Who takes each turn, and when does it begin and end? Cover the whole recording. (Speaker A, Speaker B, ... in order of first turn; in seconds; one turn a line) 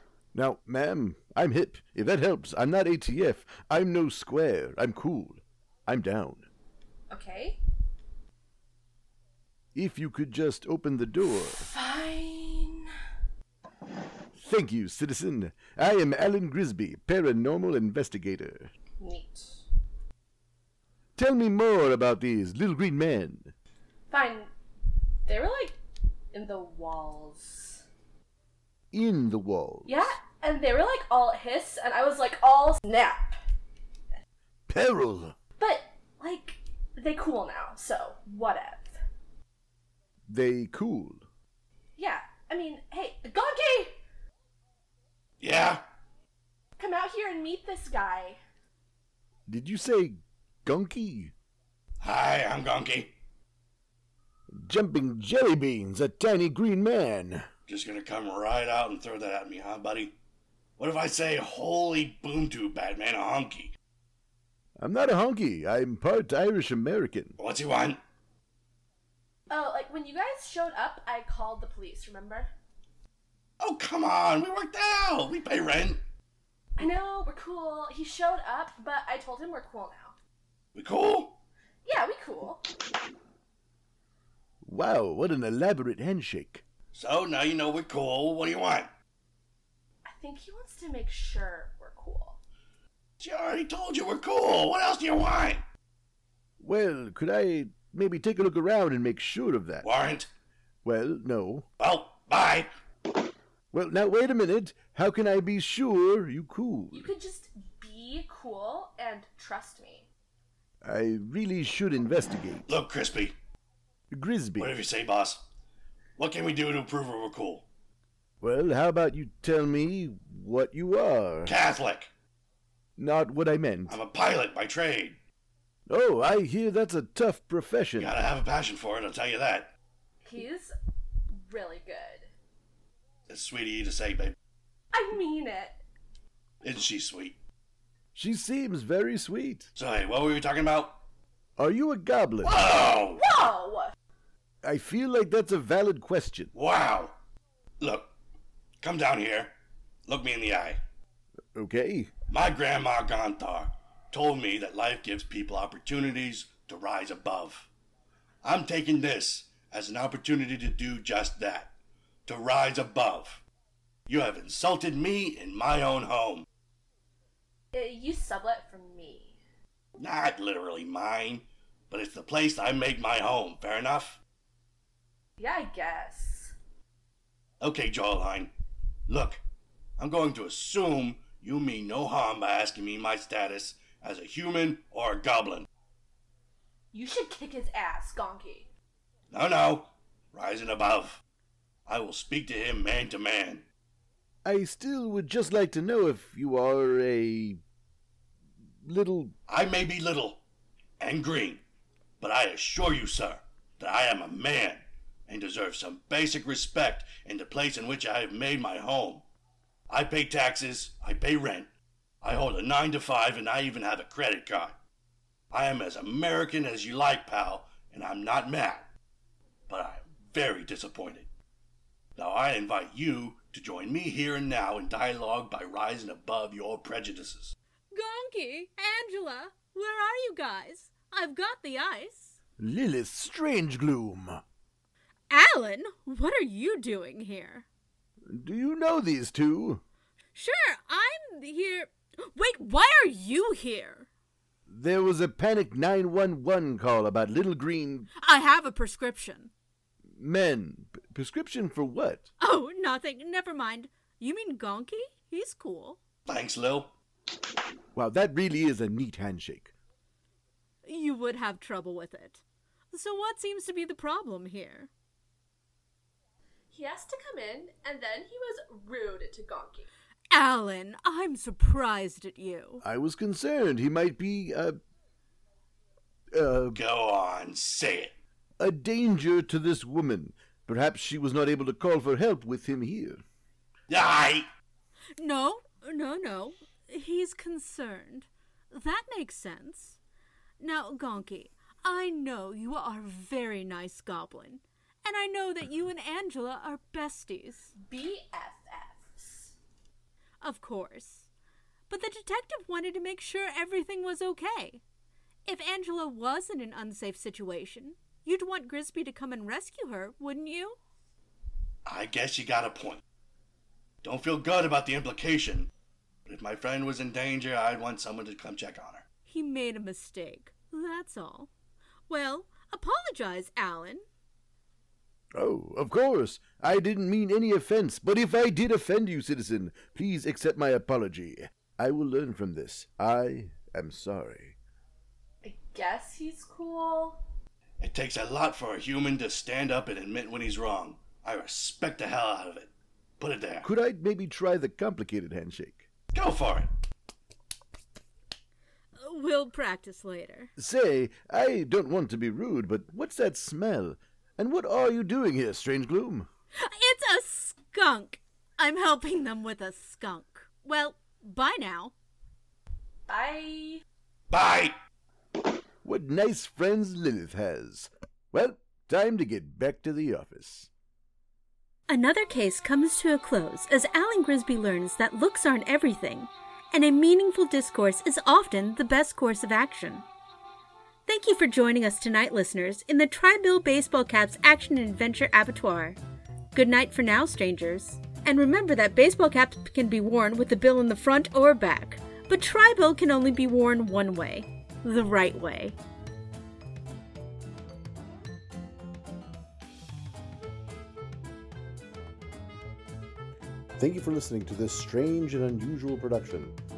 Speaker A: 0.3-6.5
Speaker B: 7.1-7.6
Speaker A: 9.7-11.7
Speaker B: 11.6-12.9
Speaker A: 14.3-18.7
Speaker B: 19.0-19.6
Speaker A: 21.2-23.5
Speaker B: 24.1-24.5
Speaker B: 25.2-25.8
Speaker B: 26.3-27.8
Speaker A: 28.9-30.1
Speaker B: 29.9-33.4
Speaker A: 34.7-35.3
Speaker B: 35.6-39.0
Speaker A: 40.3-41.2
Speaker B: 42.0-44.0
Speaker C: 45.4-45.8
Speaker B: 46.8-48.4
Speaker A: 49.5-51.3
Speaker C: 52.0-53.1
Speaker A: 54.5-57.5
Speaker C: 57.7-60.1
Speaker C: 60.8-63.7
Speaker A: 64.8-67.3
Speaker C: 67.4-68.0
Speaker B: 69.5-72.5
Speaker C: 73.6-76.0
Speaker B: 76.8-80.1
Speaker C: 80.7-81.4
Speaker B: 81.8-82.6
Speaker A: 84.6-86.6
Speaker C: 86.9-88.9
Speaker B: 90.0-92.4
Speaker C: 93.2-95.6
Speaker A: 96.6-99.9
Speaker C: 99.8-100.3
Speaker A: 100.8-101.7
Speaker C: 101.8-102.7
Speaker A: 103.7-107.1
Speaker B: 106.9-110.1
Speaker A: 110.8-112.7
Speaker C: 112.7-113.3
Speaker A: 114.1-114.7
Speaker C: 114.6-115.5
Speaker C: 116.2-117.7
Speaker A: 118.4-121.5
Speaker C: 121.5-122.1
Speaker A: 123.0-124.0
Speaker C: 123.9-125.2
Speaker A: 125.9-128.1
Speaker C: 128.0-129.7
Speaker B: 130.2-130.7
Speaker B: 131.3-132.3
Speaker C: 133.3-134.3
Speaker B: 134.9-135.8
Speaker C: 136.6-137.4
Speaker A: 138.1-139.7
Speaker C: 139.7-141.0
Speaker A: 141.6-142.6
Speaker C: 142.4-143.2
Speaker B: 142.8-143.9
Speaker A: 144.6-146.5
Speaker C: 146.5-147.2
Speaker C: 147.8-148.1
Speaker C: 148.8-150.8
Speaker A: 151.5-152.1
Speaker C: 152.3-157.7
Speaker C: 158.4-161.7
Speaker C: 162.2-163.4
Speaker C: 164.1-166.4
Speaker B: 167.7-169.4
Speaker C: 170.0-174.2
Speaker B: 175.4-176.5
Speaker C: 177.6-178.5
Speaker C: 179.1-179.4
Speaker C: 180.0-185.7
Speaker B: 186.9-188.7
Speaker C: 189.3-191.2
Speaker C: 191.9-193.7
Speaker A: 194.4-197.6
Speaker A: 198.8-199.3
Speaker C: 199.5-200.4
Speaker C: 201.0-201.6
Speaker C: 202.2-209.2
Speaker C: 209.9-211.7
Speaker C: 212.2-214.8
Speaker C: 215.5-218.9
Speaker C: 219.7-221.3
Speaker C: 222.2-227.6
Speaker D: 227.9-232.4
Speaker A: 232.6-234.4
Speaker D: 235.3-237.7
Speaker A: 238.3-239.8
Speaker D: 240.3-244.1
Speaker A: 244.7-248.1
Speaker D: 248.2-249.5
Speaker A: 250.1-252.3
Speaker D: 252.4-256.0
Speaker C: 256.2-256.9
Speaker A: 257.9-259.7
Speaker D: 260.8-264.9
Speaker B: 266.7-269.9
Speaker D: 270.3-272.8
Speaker A: 272.8-274.8
Speaker A: 276.3-276.8
Speaker C: 276.7-278.1
Speaker A: 278.6-283.2
Speaker C: 283.9-284.5
Speaker D: 285.2-290.0
Speaker D: 290.6-297.7
Speaker B: 297.9-299.6
Speaker D: 300.4-301.3
Speaker D: 301.9-304.8
Speaker D: 305.4-310.8
Speaker C: 311.9-313.0
Speaker C: 314.0-315.7
Speaker C: 316.2-319.0
Speaker D: 319.2-321.5
Speaker D: 322.1-324.1
Speaker A: 325.4-334.6
Speaker B: 335.4-337.2
Speaker C: 337.8-343.7
Speaker A: 343.6-345.9
Speaker C: 346.1-346.7
Speaker D: 348.9-350.5
Speaker A: 350.6-356.3
Speaker D: 356.6-361.9
Speaker B: 363.1-363.8
Speaker C: 364.3-364.7
Speaker A: 365.8-370.7
Speaker D: 371.9-380.1
Speaker D: 381.1-386.0
Speaker D: 386.5-395.8
Speaker A: 403.8-406.6